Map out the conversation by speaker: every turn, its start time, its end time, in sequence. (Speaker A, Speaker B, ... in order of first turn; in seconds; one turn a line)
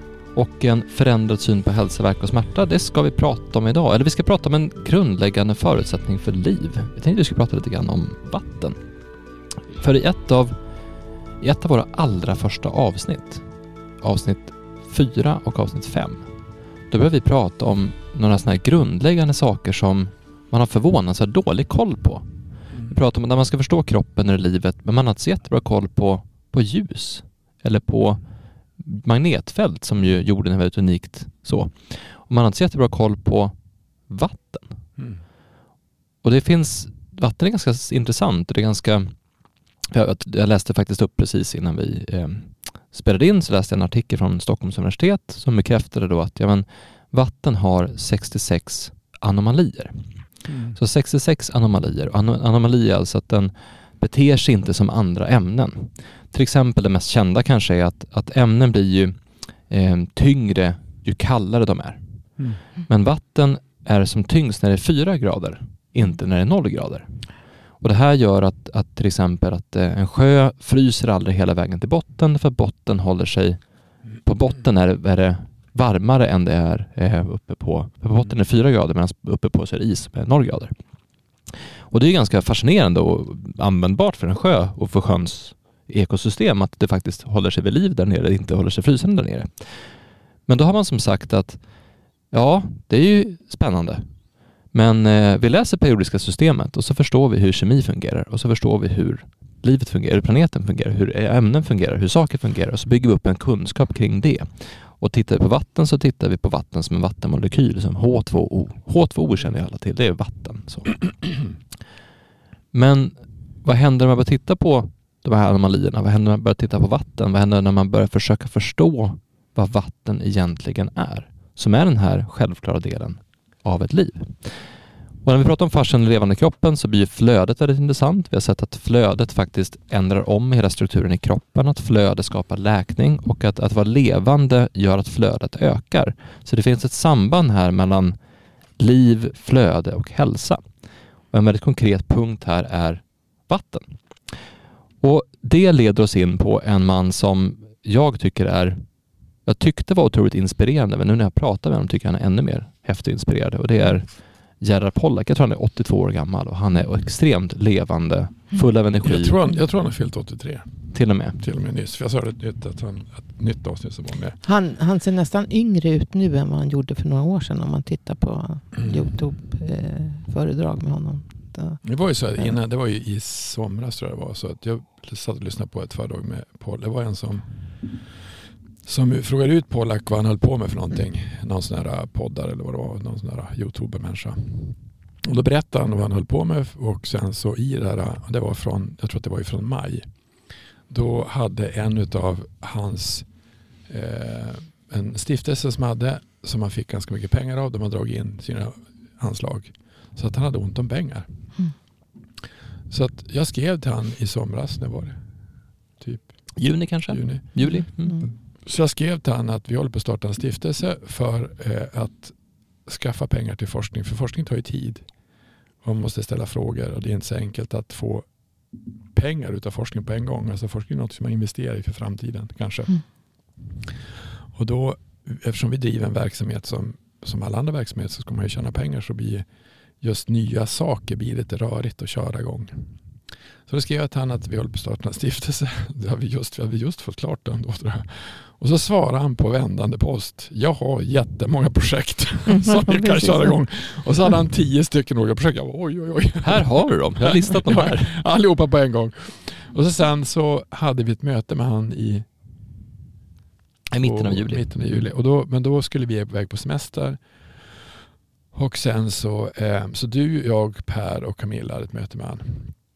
Speaker A: 0.3-8.8
Speaker A: 9.7-10.5
Speaker A: 11.4-13.4
Speaker A: 14.0-16.3
Speaker A: 16.9-22.2
Speaker A: 22.9-28.2
Speaker A: 28.8-33.5
Speaker A: 34.1-34.8
Speaker A: 36.2-39.2
Speaker A: 39.9-50.1
Speaker B: 50.5-50.8
Speaker A: 50.7-62.0
Speaker A: 62.9-67.1
Speaker A: 67.8-73.6
Speaker A: 74.2-80.8
Speaker A: 81.9-89.9
Speaker A: 90.5-91.6
Speaker A: 92.3-94.1
Speaker A: 94.7-111.0
Speaker A: 112.7-124.7
Speaker A: 125.2-138.2
Speaker A: 138.8-140.6
Speaker A: 141.3-143.9
Speaker A: 145.0-148.8
Speaker A: 149.4-159.4
Speaker B: 159.0-164.4
Speaker A: 160.9-161.4
Speaker C: 164.4-171.8
Speaker B: 168.8-169.1
Speaker B: 171.8-178.2
Speaker B: 178.8-190.1
Speaker B: 190.9-193.3
Speaker B: 193.9-201.3
Speaker B: 202.9-205.2
Speaker B: 206.0-206.5
Speaker A: 206.6-208.2
Speaker B: 207.1-215.1
Speaker C: 207.6-208.3
Speaker B: 215.8-218.3
Speaker B: 219.1-222.9
Speaker B: 224.5-229.4
Speaker B: 230.0-232.9
Speaker B: 233.7-252.3
Speaker C: 242.5-243.5
Speaker A: 246.4-248.1
Speaker A: 253.9-254.7
Speaker B: 254.0-257.9
Speaker B: 258.5-262.7